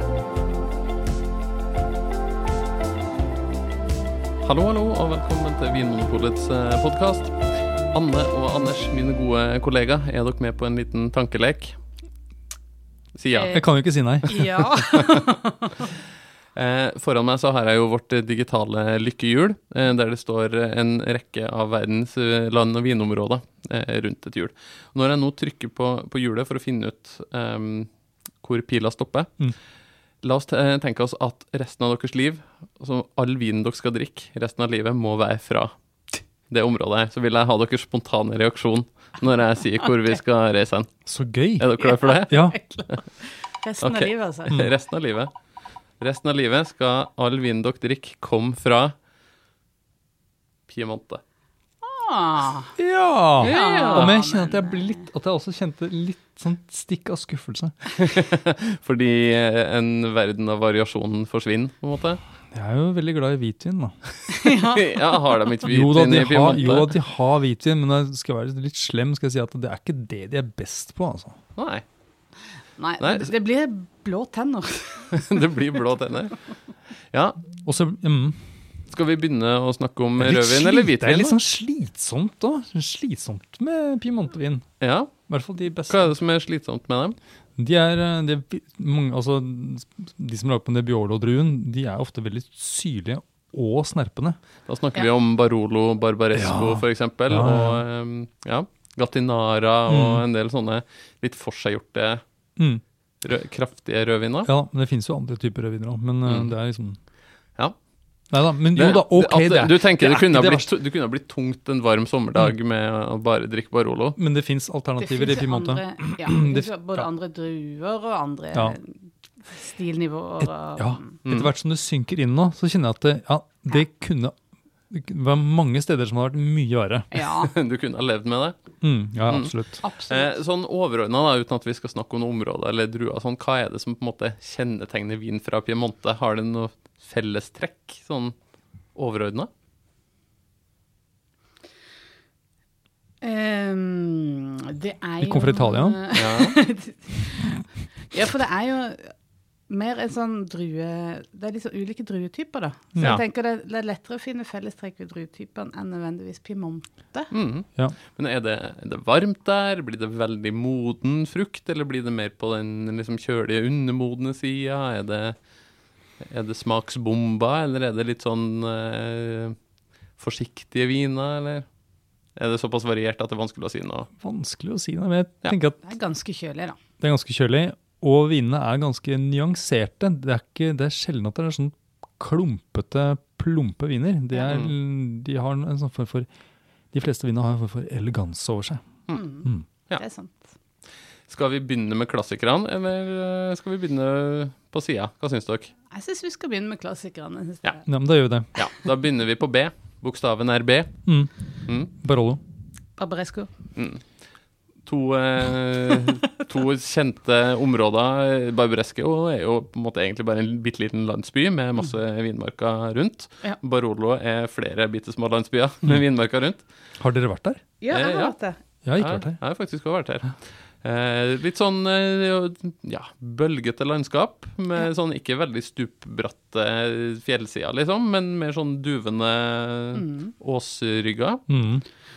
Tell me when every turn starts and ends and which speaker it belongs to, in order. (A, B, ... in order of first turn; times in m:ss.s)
0:04.4-0:11.8 A
0:13.2-0:13.6 A
0:13.3-0:13.7 B
0:13.5-0:14.4 C
0:14.2-0:15.9 B
0:15.0-0:15.2 A
0:16.5-0:27.9 A
0:28.4-0:29.3 A
0:30.2-0:35.7 A
0:36.5-0:40.9 A
0:41.0-0:41.7 C
0:41.6-0:43.0 A
0:41.8-0:44.6 B
0:42.3-0:42.6 C
0:43.8-0:45.3 A
0:46.0-0:48.9 A
0:50.7-0:51.2 A
0:51.8-0:52.7 B
0:52.8-0:57.7 C
0:53.4-0:55.0 B
0:53.4-0:54.2 A
0:57.9-1:02.2 A
1:02.5-1:03.9 C
1:04.3-1:05.4 B
1:04.6-1:06.9 A
1:05.7-1:11.4 C
1:11.6-1:11.8 A
1:12.8-1:15.2 B
1:13.0-1:13.3 A
1:15.1-1:16.4 A
1:17.1-1:17.4 A
1:17.6-1:18.4 C
1:18.9-1:21.4 A
1:20.2-1:24.7 C
1:24.8-1:25.1 A
1:25.3-1:26.0 C
1:25.8-1:27.2 A
1:27.6-1:34.4 C
1:34.7-1:42.2 A
1:36.3-1:37.8 C
1:39.9-1:40.2 C
1:42.6-1:42.8 C
1:43.2-1:44.5 A
1:44.4-1:47.0 C
1:46.2-1:46.5 A
1:48.3-1:50.7 C
1:48.7-1:54.2 A
1:54.2-1:57.0 C
1:55.0-2:01.2 B
2:00.4-2:04.3 C
2:01.2-2:01.5 A
2:04.9-2:07.1 C
2:07.1-2:07.5 B
2:07.4-2:08.6 A
2:08.8-2:09.8 C
2:09.2-2:09.6 A
2:09.8-2:10.3 B
2:10.1-2:18.3 A
2:18.9-2:19.5 A
2:23.2-2:29.1 B
2:25.2-2:26.0 C
2:26.1-2:26.6 A
2:29.7-2:37.3 B
2:32.9-2:33.2 C
2:37.3-2:45.4 A
2:46.2-2:49.6 A
2:50.2-2:51.6 A
2:52.4-2:54.1 A
2:54.2-2:55.8 C
2:55.8-2:56.8 B
2:57.0-3:06.3 C
3:06.9-3:09.6 C
3:09.1-3:10.5 B
3:11.3-3:15.7 A
3:15.9-3:17.8 B
3:17.8-3:18.5 C
3:18.5-3:21.0 A
3:21.0-3:21.3 C
3:21.9-3:22.4 C
3:23.0-3:23.5 B
3:23.8-3:24.0 A
3:24.8-3:36.6 A
3:37.0-3:37.6 C
3:37.8-3:38.6 B
3:37.9-3:38.3 A
3:38.8-3:39.4 C
3:39.0-3:51.4 A
3:49.9-3:50.3 B
3:51.5-3:51.8 C